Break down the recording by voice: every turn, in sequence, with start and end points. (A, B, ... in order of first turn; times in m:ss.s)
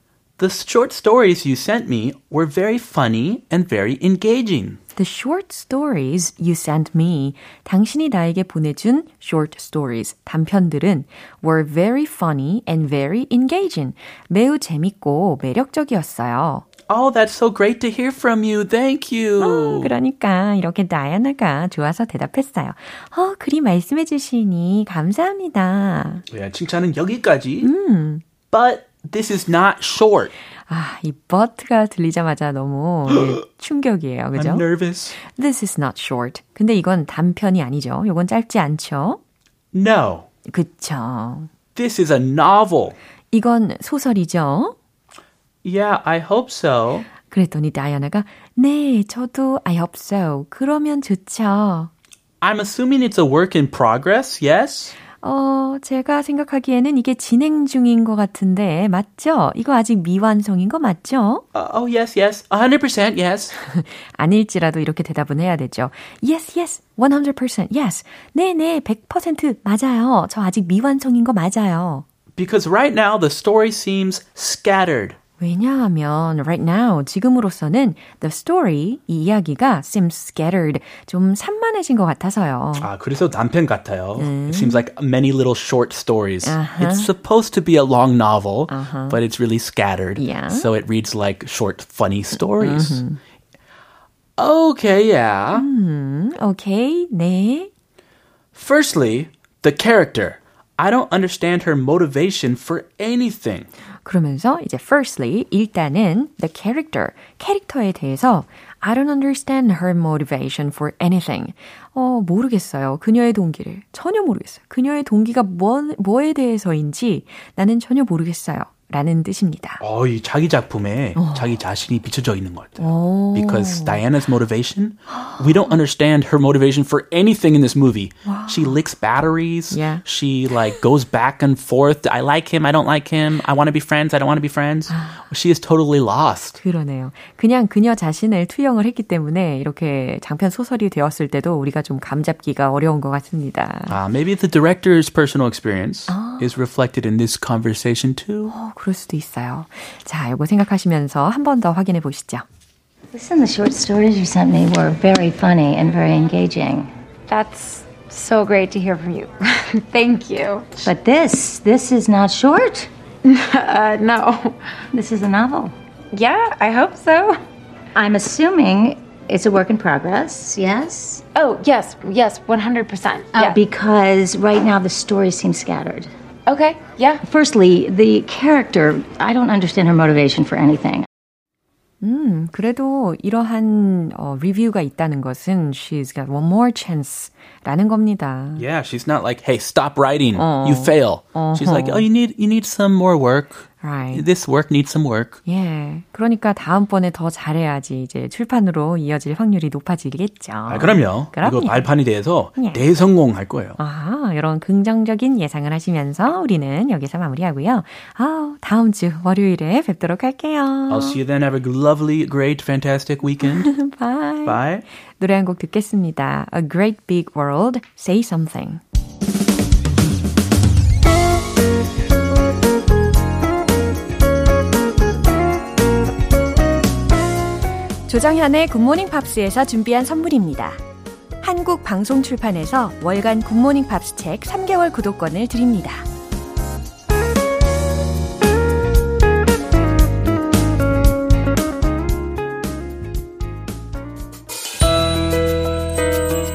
0:00.4-0:04.8 A
0:05.0-0:16.6 B
0:16.9-0:19.9 A
0:19.4-0:26.2 B
0:26.3-0:27.7 A
0:27.6-0:28.2 B
0:28.5-0:30.3 A
0:30.7-0:39.2 B
0:34.4-0:35.2 A
0:39.7-0:40.3 A
0:40.5-0:41.5 B
0:41.8-0:43.0 A
0:43.3-0:44.8 B
0:45.6-0:47.1 A
0:47.2-0:51.9 B
0:52.4-0:54.9 A
0:55.2-1:01.4 B
1:01.5-1:03.5 A
1:03.6-1:12.1 B
1:12.4-1:15.2 A
1:15.4-1:22.9 B
1:22.8-1:33.0 A
1:24.2-1:24.8 B
1:26.4-1:27.1 B
1:28.7-1:29.2 B
1:30.2-1:30.7 B
1:32.4-1:33.2 B
1:34.4-1:35.7 A
1:35.5-1:37.7 B
1:38.5-1:43.7 A
1:44.0-1:59.8 B
1:59.8-2:16.6 A
2:01.2-2:01.5 B
2:02.8-2:04.0 B
2:05.1-2:05.8 B
2:08.2-2:08.8 B
2:09.7-2:10.0 B
2:14.9-2:15.3 B
2:16.6-2:24.0 B
2:23.9-2:28.5 A
2:26.1-2:26.5 B
2:28.5-2:32.4 B
2:33.1-2:36.9 C
2:37.3-2:40.9 D
2:40.9-2:42.9 C
2:43.2-2:44.7 D
2:44.9-2:45.7 C
2:46.1-2:47.4 D
2:48.0-2:51.2 C
2:51.4-2:53.6 D
2:53.4-2:56.1 C
2:56.5-2:57.2 D
2:57.2-3:01.1 C
3:02.0-3:08.6 B
3:08.6-3:15.4 A
3:10.4-3:12.1 B
3:13.8-3:14.2 B
3:15.4-3:21.9 B
3:20.7-3:23.8 A
3:22.6-3:22.8 B
3:23.8-3:31.2 B
3:30.9-3:33.7 A
3:33.4-3:34.6 B
3:34.4-3:34.8 A
3:35.2-3:38.8 B
3:48.1-3:50.8 B
3:51.4-3:56.1 B